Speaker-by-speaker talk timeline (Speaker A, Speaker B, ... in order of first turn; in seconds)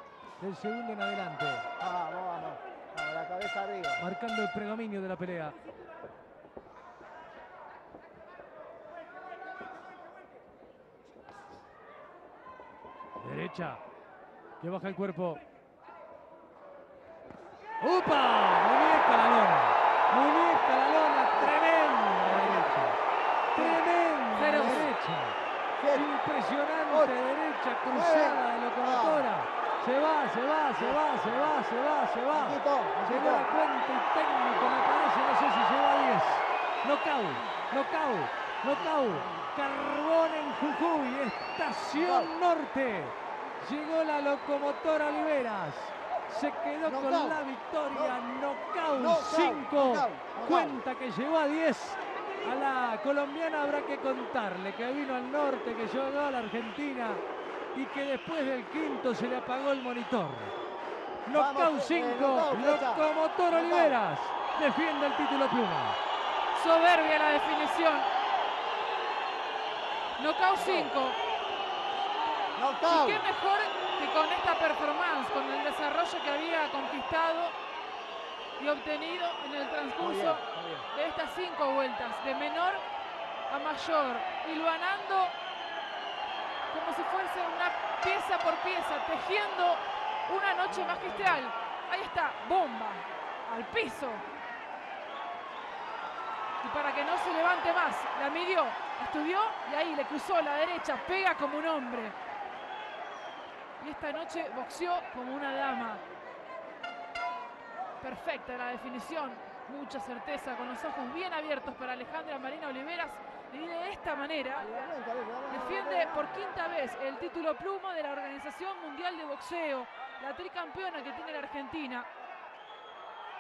Speaker A: 0.4-1.6, 4.0-5.5, 13.2-13.8, 14.6-15.4, 17.8-23.0, 23.5-25.4, 25.9-57.2, 57.7-60.5, 61.2-66.0
Speaker B: 1.8-4.0, 22.2-22.7, 23.6-23.8, 24.6-24.9, 25.8-26.1, 26.9-27.1, 27.9-29.3, 30.8-31.1, 32.3-33.5, 38.8-39.5, 41.9-42.3, 46.8-48.2, 48.9-50.8, 61.3-64.0, 70.6-70.9, 72.6-73.3, 80.0-80.9, 90.8-91.4, 114.6-116.3
Speaker C: 24.3-24.9, 66.5-68.1, 70.2-71.2, 72.9-77.6, 78.6-82.8, 83.5-85.3, 86.7-94.2, 96.6-102.2, 103.8-106.0, 108.0-114.7, 115.5-122.1